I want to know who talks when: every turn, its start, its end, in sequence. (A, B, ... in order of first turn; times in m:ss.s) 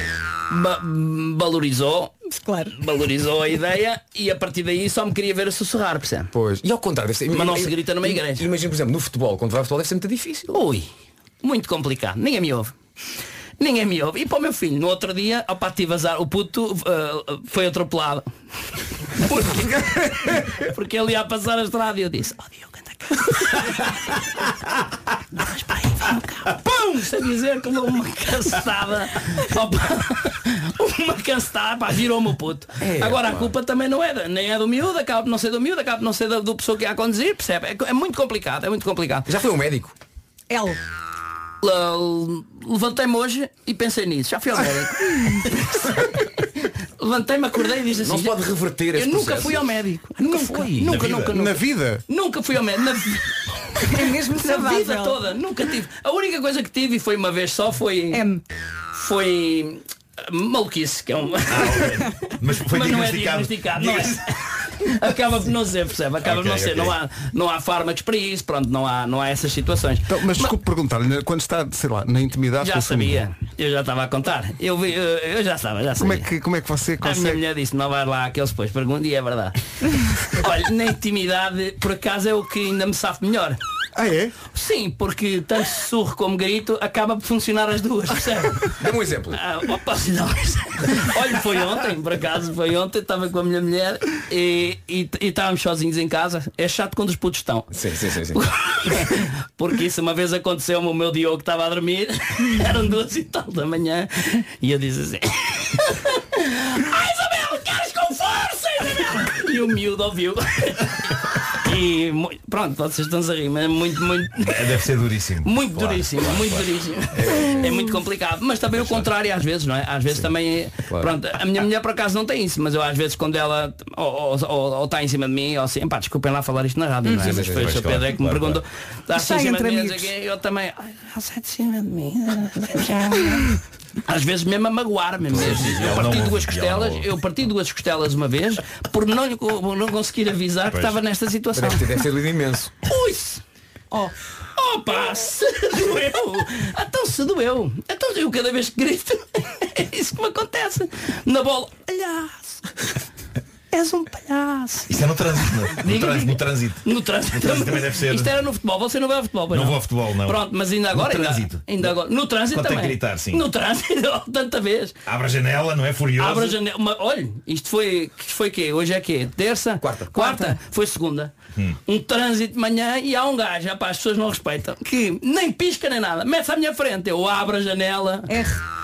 0:00.5-0:02.2 A
0:02.2-0:02.9 B
0:02.7-0:06.3 A
0:06.3-0:10.6 C
0:07.3-0:08.5 A
0:10.5-0:10.9 A
0:11.4-0:12.7 A
0:13.6-0:18.3 A
0:19.2-0:24.5 A
0:25.4-0:39.3 A
0:32.8-0:33.5 C
0:39.3-0:39.9 C
0:40.5-0:40.8 B
0:41.6-0:46.4 A
0:47.0-0:48.3 A
0:48.0-0:50.7 C
0:48.9-0:58.2 A
0:50.8-0:51.5 D
0:51.2-0:52.0 E
0:53.8-0:55.2 B
0:58.1-0:58.4 B
0:58.9-1:10.6 A
1:01.5-1:04.2 D
1:06.2-1:07.0 D
1:10.1-1:13.2 E
1:12.6-1:16.3 A
1:16.0-1:17.4 E
1:17.0-1:23.6 A
1:23.9-1:24.4 E
1:24.5-1:28.8 A
1:28.8-1:29.4 C
1:29.3-1:37.7 A
1:37.7-1:38.4 C
1:38.3-1:51.0 A
1:51.5-1:54.8 A
1:54.4-1:56.9 D
1:55.4-2:22.0 A
1:57.2-1:57.7 C
1:58.7-1:59.1 D
2:07.0-2:07.4 B
2:07.2-2:07.8 C
2:07.2-2:08.6 D
2:09.1-2:10.1 B
2:15.2-2:17.1 D
2:20.6-2:21.0 D
2:21.5-2:22.7 C
2:22.8-2:23.4 A
2:24.6-2:32.6 A
2:33.7-2:45.0 A
2:34.9-2:38.4 D
2:39.5-2:43.4 D
2:45.0-2:46.6 D
2:46.2-2:51.3 A
2:49.8-2:50.2 C
2:50.2-2:50.6 B
2:51.8-2:58.3 A
2:58.3-2:58.6 B